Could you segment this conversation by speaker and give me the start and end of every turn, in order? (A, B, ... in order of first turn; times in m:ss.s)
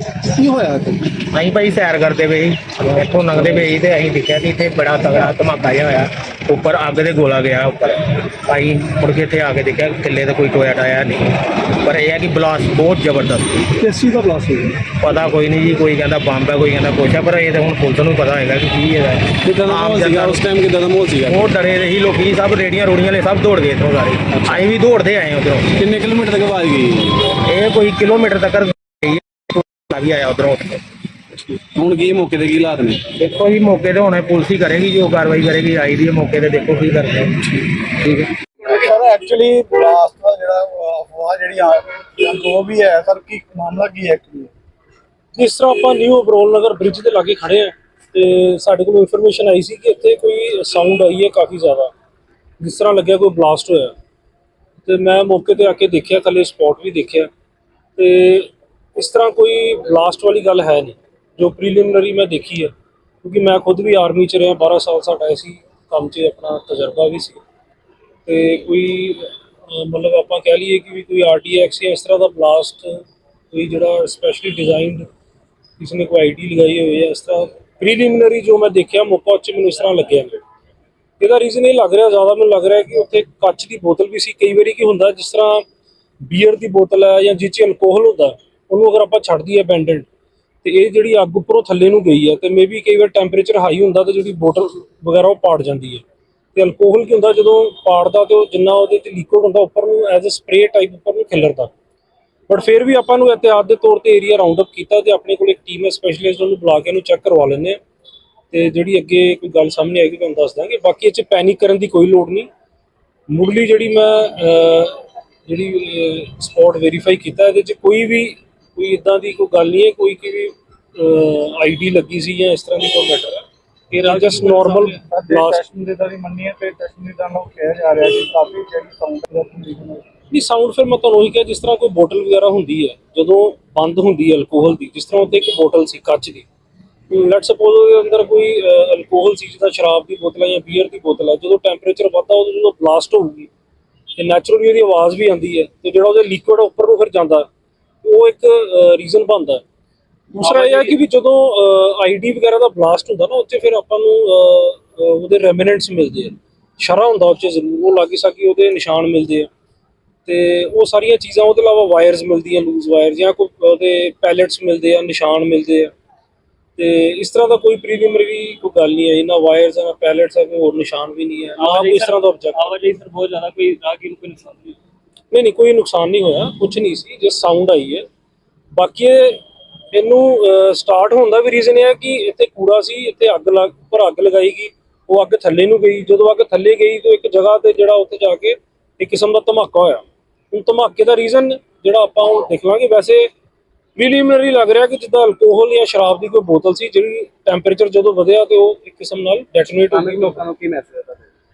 0:00.2-0:01.2 A
0:01.2-0:13.7 B
0:14.0-0:14.3 A
0:15.0-0:20.4 B
0:19.4-0:21.4 A
0:21.2-0:25.7 B
0:25.8-0:27.3 A
0:27.3-0:30.8 B
0:31.6-0:33.0 A
0:33.1-0:38.2 B
0:38.6-0:44.5 C
0:45.3-0:51.9 D
0:52.6-0:53.9 D
0:54.8-0:57.3 D
0:58.0-1:02.7 D
1:03.2-1:07.4 D
1:08.2-1:12.9 D
1:13.5-1:15.1 D
1:15.8-1:20.4 D
1:21.2-1:25.6 D
1:26.2-1:30.1 D
1:30.6-1:36.0 D
1:36.6-1:41.7 D
1:42.5-1:47.8 D
1:48.5-1:52.5 D
1:53.3-2:05.6 D
2:04.1-2:10.0 C
2:10.3-2:16.5 D
2:17.1-2:23.5 D
2:24.2-2:27.5 D
2:28.0-2:29.6 D
2:30.3-2:30.9 E
2:30.4-2:39.5 D
2:40.2-2:45.9 D
2:46.8-2:52.6 D
2:51.6-2:54.8 E
2:55.3-2:58.1 D
2:58.7-2:59.4 D
2:59.9-3:13.3 D
3:14.0-3:20.4 D
3:19.9-3:21.2 A